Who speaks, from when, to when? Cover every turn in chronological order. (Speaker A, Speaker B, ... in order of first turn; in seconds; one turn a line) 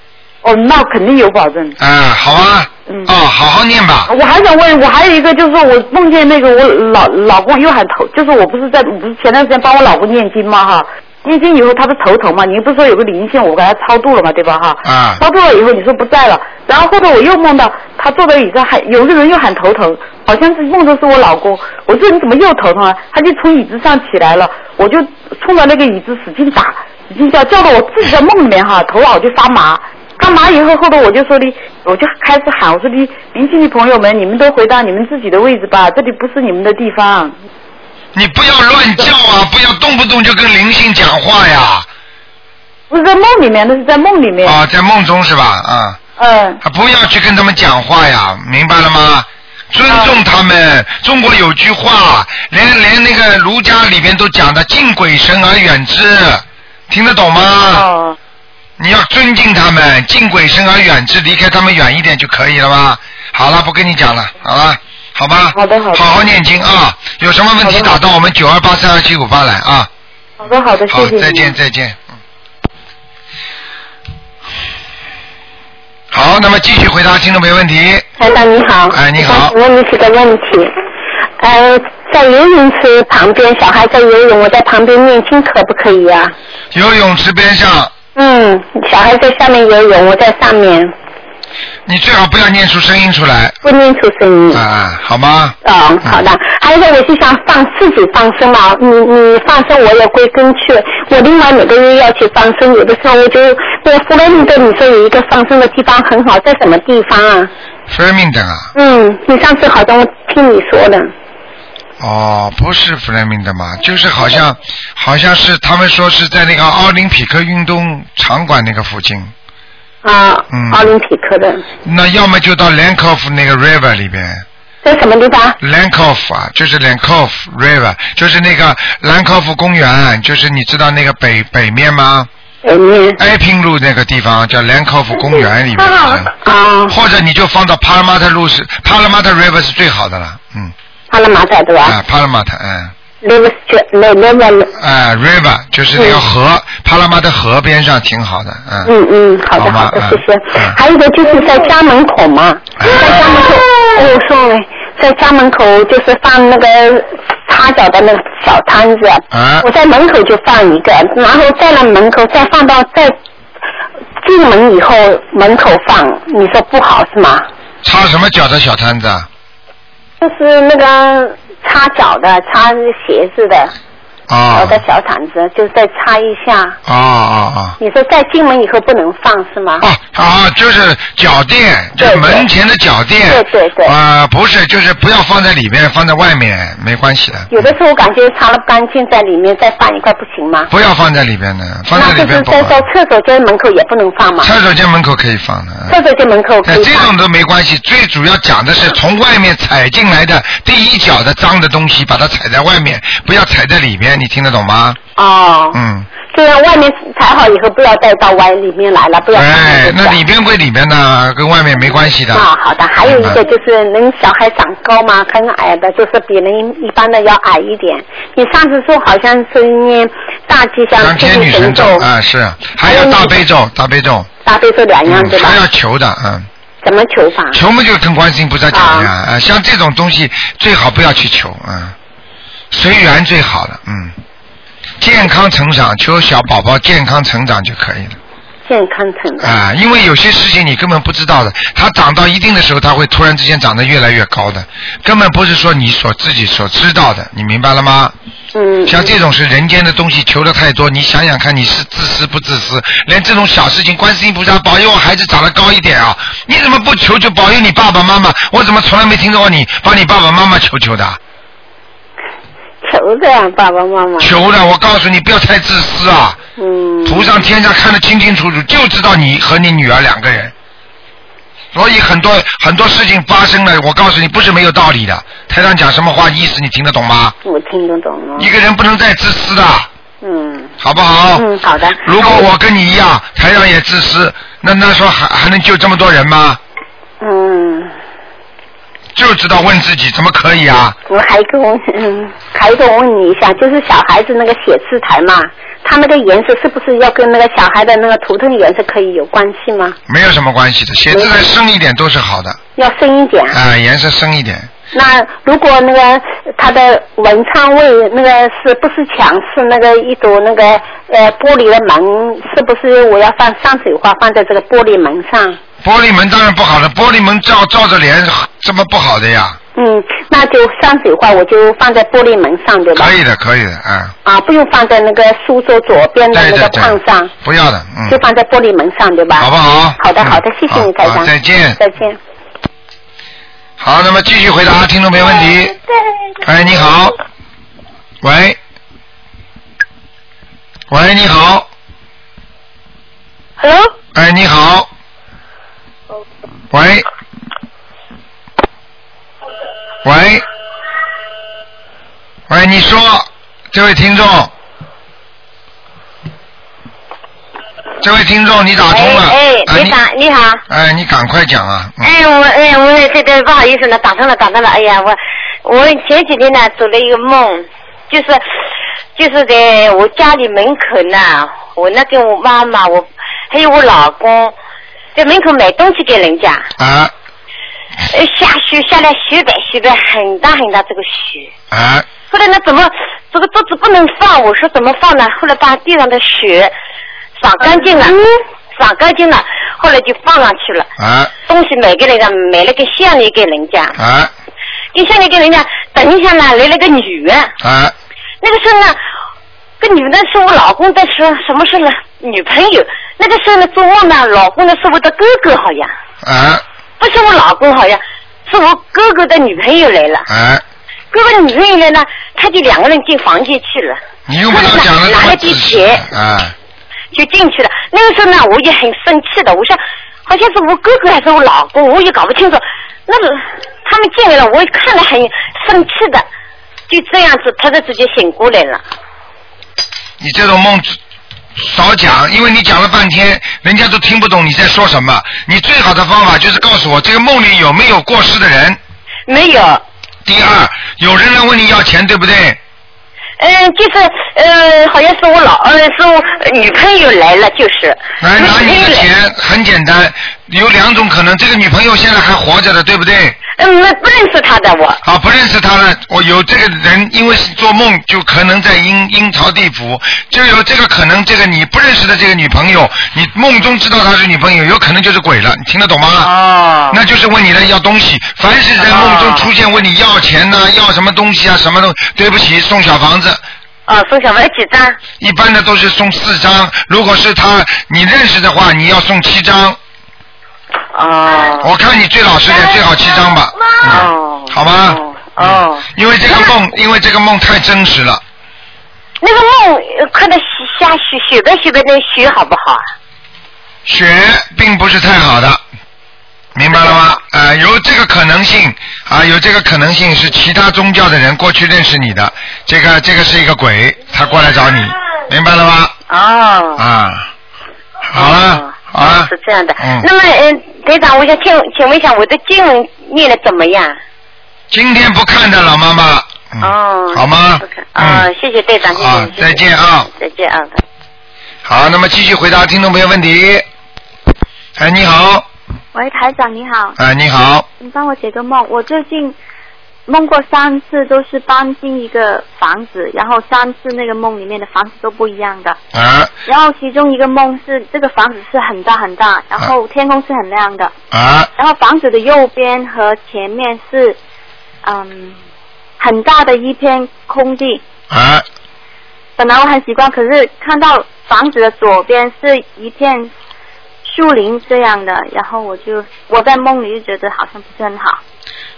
Speaker A: 0.4-1.8
Speaker B: 1.8-4.1
Speaker A: 2.9-3.1
Speaker A: 4.1-37.4
Speaker B: 14.8-15.2
Speaker B: 38.1-41.9
Speaker A: 42.9-44.6
Speaker B: 44.4-46.0
Speaker A: 46.2-46.6
Speaker B: 46.6-57.9
Speaker A: 49.9-50.2
Speaker A: 57.7-58.2
Speaker B: 58.8-69.9
Speaker A: 65.5-66.2
Speaker A: 67.6-68.0
Speaker A: 70.4-71.5
Speaker B: 70.9-72.1
Speaker B: 76.1-78.1
Speaker C: 78.2-80.7
Speaker B: 78.9-79.5
Speaker C: 81.4-86.3
Speaker B: 86.7-87.9
Speaker C: 88.2-90.9
Speaker B: 91.8-93.6
Speaker C: 93.6-94.6
Speaker B: 94.5-96.2
Speaker C: 95.6-107.5
Speaker B: 107.9-108.7
Speaker C: 108.7-111.1
Speaker B: 112.0-119.3
Speaker C: 120.0-121.6
Speaker B: 120.5-120.9
Speaker B: 121.8-124.4
Speaker C: 124.8-125.6
Speaker B: 125.6-132.3
Speaker C: 132.6-133.2
Speaker B: 133.2-136.3
Speaker C: 135.8-136.9
Speaker B: 136.9-140.7
Speaker C: 141.1-142.0
Speaker B: 141.8-142.9
Speaker C: 143.2-144.7
Speaker B: 144.8-148.9
Speaker C: 145.9-146.2
Speaker C: 148.8-163.1
Speaker B: 149.6-150.8
Speaker B: 152.8-153.5
Speaker B: 159.3-159.7
Speaker C: 164.2-167.5
Speaker B: 167.8-169.3
Speaker C: 170.2-173.7
Speaker B: 174.3-174.8
Speaker C: 174.5-176.8
Speaker B: 176.8-177.8
Speaker C: 177.8-179.8
Speaker B: 179.8-187.7
Speaker C: 182.0-182.5
Speaker C: 183.2-183.9
Speaker C: 187.5-190.7
Speaker B: 190.7-192.8
Speaker C: 191.9-194.5
Speaker B: 194.4-195.9
Speaker C: 195.9-197.1
Speaker B: 196.6-205.0
Speaker C: 205.2-210.2
Speaker B: 205.7-206.1
Speaker B: 209.3-212.5
Speaker C: 212.3-222.1
Speaker B: 213.0-213.4
Speaker B: 221.0-224.3
Speaker C: 222.8-223.4
Speaker C: 224.4-225.6
Speaker B: 225.1-226.5
Speaker C: 226.8-227.6
Speaker B: 227.5-231.9
Speaker C: 228.7-229.1
Speaker B: 232.7-234.1
Speaker B: 235.0-238.2
Speaker C: 238.7-239.6
Speaker B: 239.4-248.1
Speaker C: 248.5-249.1
Speaker B: 248.9-261.2
Speaker C: 262.8-264.3
Speaker B: 264.2-266.4
Speaker C: 266.6-267.3
Speaker B: 267.0-270.5
Speaker B: 271.7-277.4
Speaker C: 277.4-278.5
Speaker B: 278.4-279.9
Speaker C: 280.2-280.7
Speaker B: 280.8-281.4
Speaker C: 281.3-282.5
Speaker B: 282.0-286.6
Speaker C: 287.2-287.9
Speaker B: 289.1-290.9
Speaker C: 291.1-300.0
Speaker B: 300.1-302.6
Speaker C: 301.1-301.4
Speaker C: 302.8-303.6
Speaker B: 303.5-304.7
Speaker C: 304.9-315.6
Speaker B: 315.8-319.6
Speaker C: 319.8-323.1
Speaker B: 322.9-324.1
Speaker C: 324.2-327.3
Speaker B: 326.3-328.2
Speaker C: 328.1-332.2
Speaker B: 329.4-331.8
Speaker B: 333.8-335.7
Speaker B: 336.4-337.1
Speaker B: 338.2-338.6
Speaker B: 340.9-341.7
Speaker D: 343.6-343.9
Speaker B: 344.1-344.9
Speaker B: 346.7-347.1
Speaker B: 350.0-350.4
Speaker B: 352.5-354.5
Speaker B: 358.0-360.0
Speaker D: 358.9-360.6
Speaker B: 360.7-362.1
Speaker D: 362.0-368.4
Speaker D: 369.1-374.5
Speaker D: 375.1-376.7
Speaker B: 376.8-377.1
Speaker D: 378.1-381.5
Speaker B: 381.7-382.1
Speaker D: 382.3-386.7
Speaker D: 387.4-388.2
Speaker D: 388.7-390.9
Speaker B: 391.0-391.3
Speaker D: 391.4-393.9
Speaker B: 393.9-394.3
Speaker D: 394.9-397.5
Speaker B: 397.6-397.9
Speaker D: 398.4-399.0
Speaker D: 399.8-405.9
Speaker B: 406.2-406.6
Speaker D: 407.0-410.3
Speaker B: 410.3-410.6
Speaker D: 411.1-416.1
Speaker B: 414.3-416.5
Speaker D: 417.1-426.2
Speaker D: 426.9-428.8
Speaker B: 430.2-431.0
Speaker B: 431.6-438.8
Speaker D: 439.3-439.8
Speaker B: 440.2-442.6
Speaker D: 443.4-449.1
Speaker B: 448.2-453.4
Speaker D: 453.6-455.0
Speaker B: 455.0-466.3
Speaker D: 466.2-467.0
Speaker B: 466.9-473.4
Speaker D: 468.8-469.5
Speaker D: 473.9-475.0
Speaker B: 475.2-479.8
Speaker D: 480.9-481.7
Speaker B: 481.6-488.2
Speaker D: 482.5-482.9
Speaker D: 483.7-486.5
Speaker D: 489.2-492.9
Speaker B: 493.9-495.6
Speaker B: 496.5-505.9
Speaker D: 496.7-497.1
Speaker D: 506.1-506.8
Speaker B: 506.8-507.3
Speaker B: 508.1-510.1
Speaker D: 508.1-514.0
Speaker B: 514.7-518.3
Speaker D: 516.6-520.8
Speaker B: 518.9-520.1
Speaker B: 521.6-523.6
Speaker B: 524.8-525.5
Speaker E: 525.9-527.0
Speaker B: 527.0-527.6
Speaker E: 527.8-529.4
Speaker E: 530.1-535.8
Speaker B: 535.9-536.3
Speaker E: 536.5-540.9
Speaker B: 541.1-541.5
Speaker E: 541.6-544.2
Speaker E: 544.8-545.4
Speaker E: 546.0-547.8
Speaker B: 548.1-548.4
Speaker E: 549.4-553.3
Speaker E: 554.0-558.2